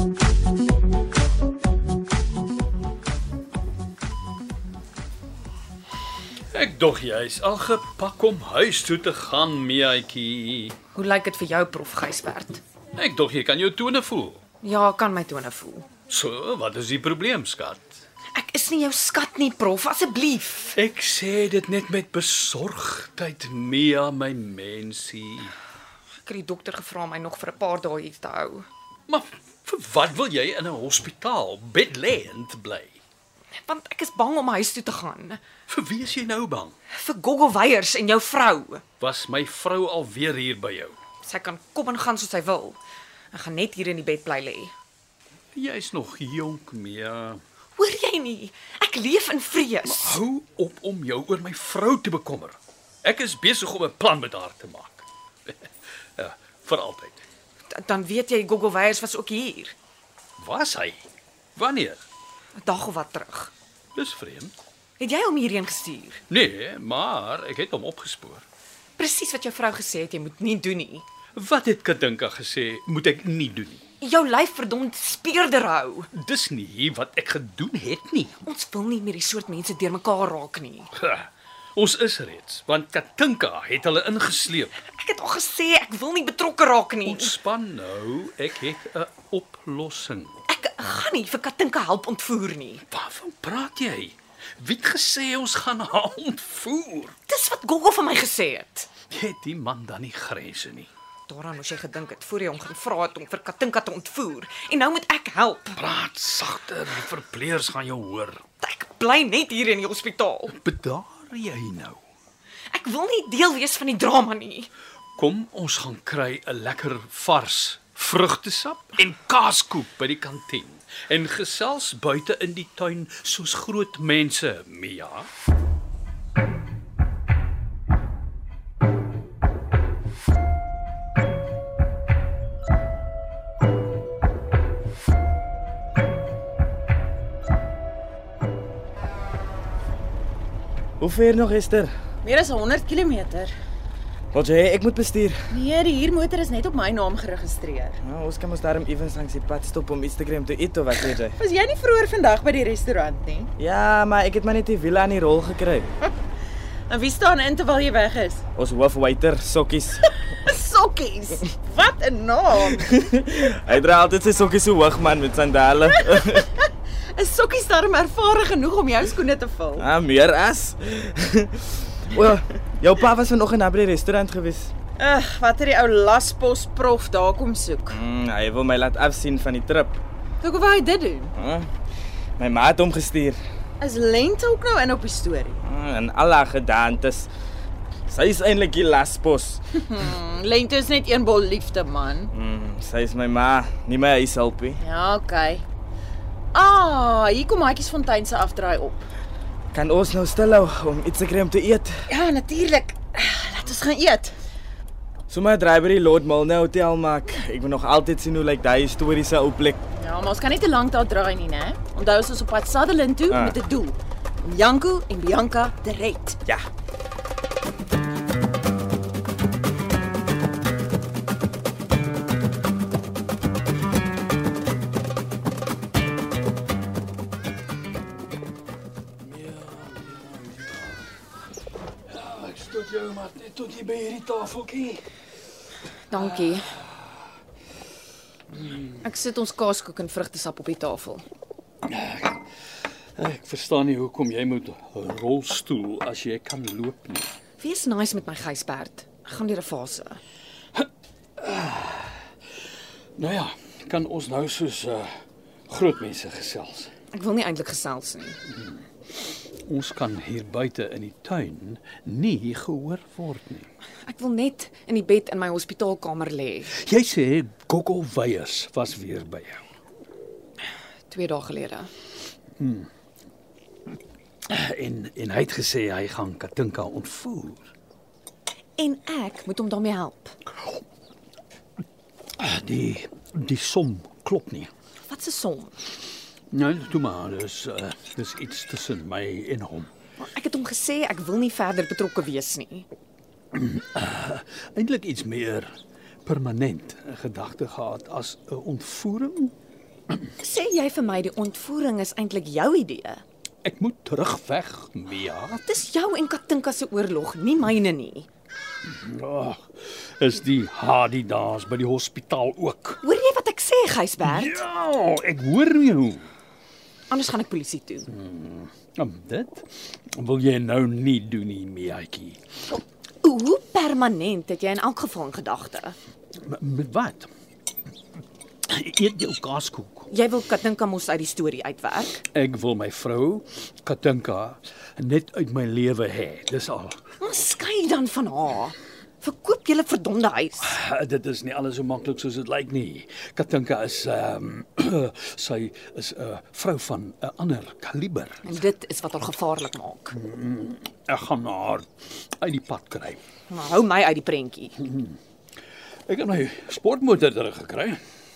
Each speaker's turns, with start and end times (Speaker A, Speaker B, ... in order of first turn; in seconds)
Speaker A: 6.5-10.8, 12.9-14.4, 16.1-18.0, 20.7-25.5, 29.1-33.0, 35.7-36.7, 39.0-41.0, 45.5-47.4, 49.8-57.2, 60.4-61.0, 61.5-62.0, 63.9-64.5, 66.3-68.4, 71.3-73.8, 76.1-78.4, 81.0-84.7, 87.0-90.4, 92.9-97.2, 99.1-100.9, 105.8-108.4, 110.5-112.0, 115.2-125.3, 229.2-231.0, 232.1-235.0, 236.1-237.0, 238.5-239.0, 241.8-242.4, 243.2-247.3, 251.4-252.3, 253.2-255.1, 255.7-256.9, 258.5-258.9, 259.6-263.7, 266.7-269.6, 272.6-272.9, 274.5-277.6, 282.4-284.7, 286.5-289.9, 293.5-295.7, 296.2-299.5, 303.6-305.6, 308.8-313.0, 314.2-316.3, 318.1-322.4, 326.4-327.3, 328.7-330.1, 332.3-337.0, 340.6-348.4, 350.1-351.9, 352.4-353.2, 354.8-355.2, 356.1-358.0
Speaker B: 10.9-12.6, 14.6-15.9, 18.3-20.8, 26.2-28.7, 33.5-35.4, 36.9-38.8, 41.2-42.8, 43.3-44.7, 47.8-50.2, 57.7-59.7, 62.6-63.5, 65.0-66.2, 69.0-71.0, 74.0-76.1, 78.4-80.9, 84.8-87.3, 90.5-92.8, 97.3-98.9, 101.3-105.8, 108.6-110.5, 112.7-114.7, 236.1-236.7, 239.0-241.2, 247.6-250.2, 257.1-258.4, 264.1-266.7, 271.1-271.9, 278.8-280.3, 285.1-285.8, 290.2-292.9, 300.4-303.2, 305.6-308.3, 313.0-314.6, 317.1-318.1, 323.2-325.9, 330.1-332.2, 337.2-340.7, 348.4-350.1, 353.5-354.7
Speaker C: 141.0-141.9, 144.3-145.5, 148.0-151.4, 153.6-155.9, 158.6-160.1, 162.6-166.5, 169.8-174.7, 177.9-180.0, 181.4-181.7, 182.4-183.4, 185.6-187.3, 188.1-189.6, 192.3-194.8, 199.7-202.0, 205.3-209.8, 213.3-213.6
Speaker D: 142.2-143.5, 145.5-148.0, 151.1-153.5, 156.9-158.4, 160.4-162.9, 165.9-169.9, 175.0-178.0, 180.4-181.3, 183.8-185.6, 189.7-192.3, 194.8-195.6, 196.5-199.1, 202.1-204.4, 209.9-216.4